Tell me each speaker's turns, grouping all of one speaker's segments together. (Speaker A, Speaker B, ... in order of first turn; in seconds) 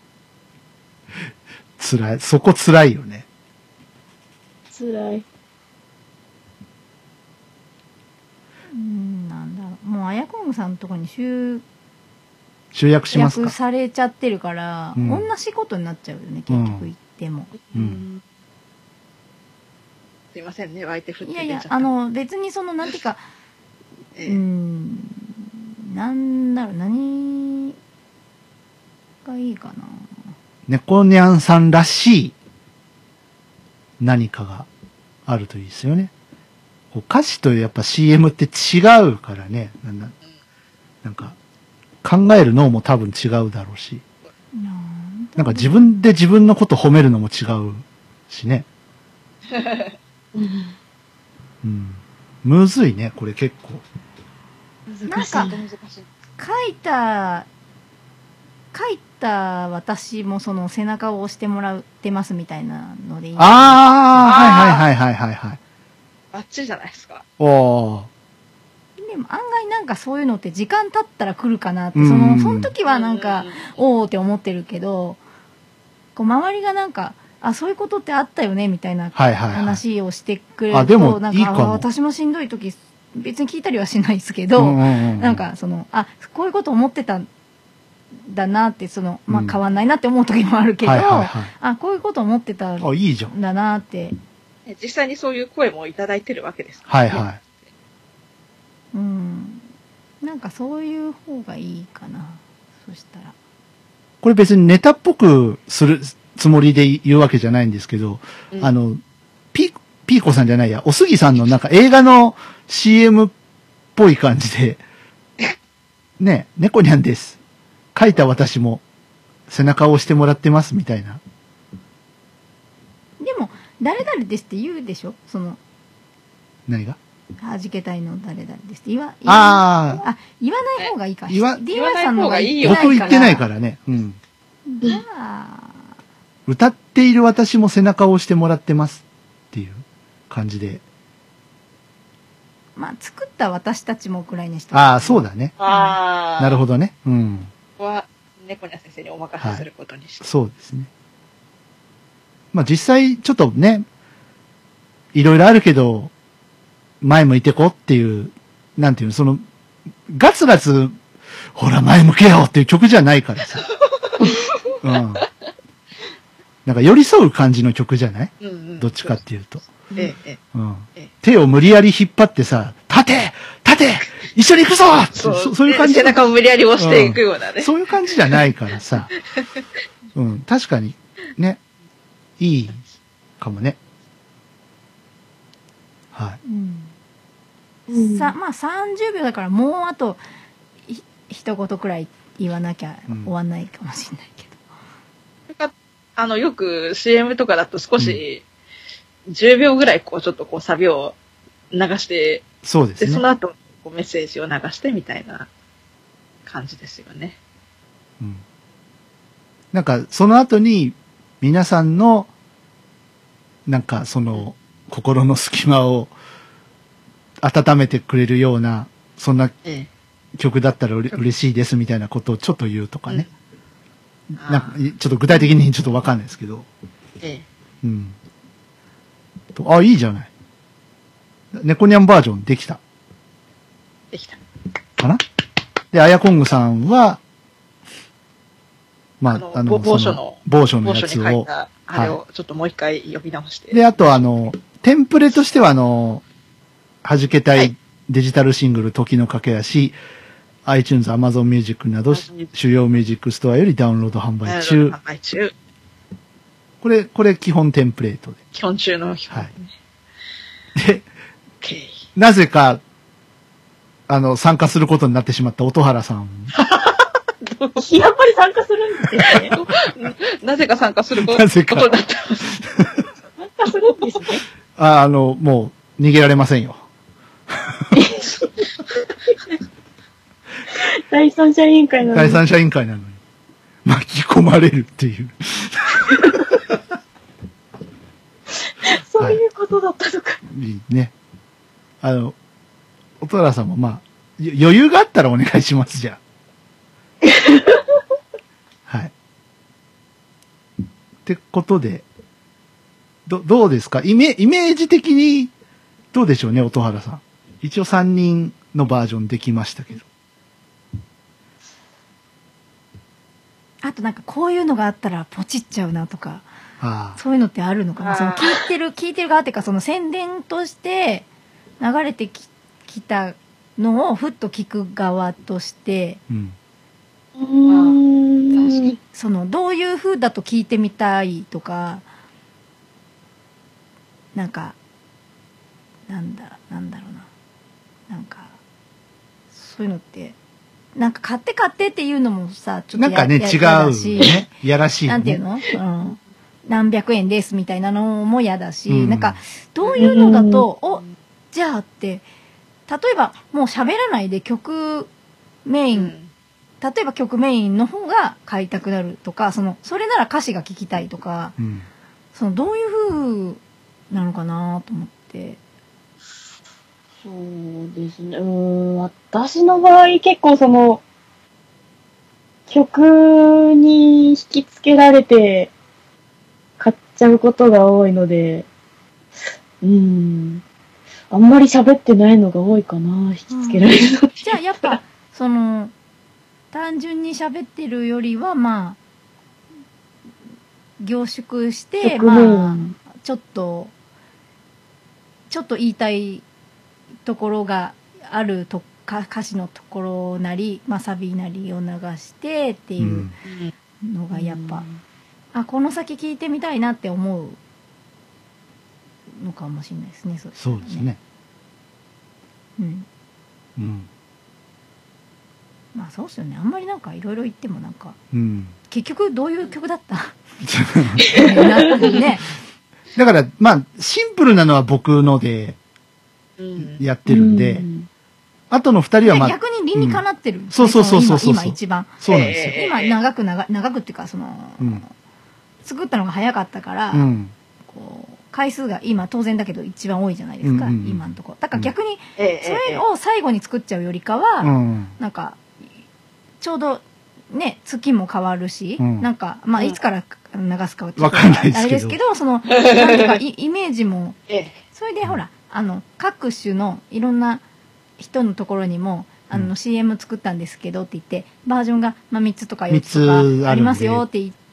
Speaker A: 1.8-3.3, 12.7-13.6, 15.0-15.3, 16.5-16.9, 17.7-18.1, 30.7-32.4, 34.0-34.7, 35.3-36.1, 36.9-40.1, 41.0-41.4, 42.0-44.0, 45.4-48.7, 51.6-53.8, 63.4-65.6, 67.4-68.1, 72.0-72.7, 79.2-79.8, 80.7-81.9, 84.6-85.4, 89.3-89.6, 90.8-91.5, 92.8-93.3, 96.9-97.4, 104.2-109.0, 109.5-113.3, 114.0-114.8, 116.2-117.4, 117.9-118.8, 119.5-121.2, 126.7-127.0, 129.3-130.1, 131.3-131.6, 132.6-134.2, 136.5-140.8, 144.7-145.6, 146.4-147.5, 149.4-149.7, 150.2-150.9, 152.5-153.9, 155.1-156.1, 157.0-159.4, 160.1-161.0, 161.6-163.7, 164.8-165.3, 166.7-169.7, 170.5-179.1, 180.2-181.6, 182.4-182.8, 183.4-183.8, 186.1-186.4, 202.6-203.2, 209.7-212.3, 213.7-216.1, 217.4-219.6, 220.4-223.3, 224.3-226.7, 227.8-228.2, 229.6-230.3, 231.5-232.8, 235.9-237.2, 239.2-242.2, 243.7-246.2, 247.0-250.0, 250.7-255.0, 256.8-258.4, 260.8-261.1, 262.2-262.8, 264.1-266.5, 271.2-271.9, 272.6-273.1, 274.8-276.8, 282.1-283.2, 283.9-286.7, 290.5-291.1, 292.0-292.4, 293.2-296.2, 298.9-299.1, 301.2-302.1, 303.3-305.5, 306.1-310.1, 316.8-317.2, 326.3-326.6, 342.9-345.4, 348.9-349.4, 361.6-361.9, 403.0-403.3, 410.6-411.2, 413.8-414.1, 418.3-418.8, 420.6-421.3, 423.2-425.8, 426.8-427.9, 428.7-432.7, 437.1-437.5, 440.6-441.2, 444.6-445.1, 449.0-449.3, 451.2-452.2, 462.9-464.2
Speaker B: 4.7-5.2, 50.4-50.8, 54.9-55.6, 187.9-188.3, 267.8-269.5, 273.4-274.4, 277.9-278.5, 280.7-282.4, 288.8-290.4, 297.2-297.8, 327.4-329.0, 350.0-350.7, 367.2-371.0, 372.7-375.7, 376.8-378.7, 379.8-380.6, 381.3-384.3, 392.0-393.0, 404.3-405.0, 427.3-428.1
Speaker C: 8.7-11.6, 13.1-17.5, 21.2-23.2, 24.3-27.8, 29.2-30.2, 44.5-45.9, 55.1-55.6, 56.4-57.5, 58.7-64.0, 69.0-75.2, 76.2-87.3, 88.3-94.2, 98.9-99.7, 100.2-103.3, 123.2-125.6, 127.4-133.4, 134.7-135.8, 142.8-145.9, 186.4-186.9, 187.9-190.2, 190.9-194.6, 313.8-316.5, 317.2-321.3, 321.8-326.2, 329.0-332.0, 334.4-334.8, 336.1-337.3, 338.1-338.5, 339.5-340.4, 341.0-344.5, 345.1-352.2, 352.9-355.1, 355.7-356.1, 356.8-361.6, 362.3-363.6, 364.1-365.6, 383.5-383.9, 384.4-385.9, 386.7-389.0, 391.0-393.9, 395.5-396.4, 397.2-403.3, 404.0-404.9, 405.5-407.6, 409.4-411.1, 412.8-413.1, 415.9-418.2, 418.9-420.4, 421.2-422.5, 429.2-435.1, 435.8-437.3, 437.9-445.6, 446.6-454.4, 454.9-457.6, 458.2-464.6
Speaker D: 20.3-21.9, 49.5-49.8, 55.1-56.1, 64.2-64.8, 66.3-67.2, 72.9-73.6, 94.7-97.3, 131.7-133.2, 145.6-146.6, 147.8-150.2, 168.4-169.2, 170.0-170.4, 175.2-178.4, 195.5-198.4, 199.3-201.2, 201.7-202.5, 203.0-205.5, 206.5-207.4, 224.4-224.8, 234.1-234.4, 239.3-244.2, 252.1-252.5, 254.4-255.5, 258.5-259.7, 261.6-262.0, 266.6-267.8, 269.3-272.6, 318.0-318.5, 327.7-328.0, 355.9-356.3, 403.5-403.7, 426.6-427.0, 432.3-433.2, 442.4-443.0, 452.7-453.4, 454.5-454.8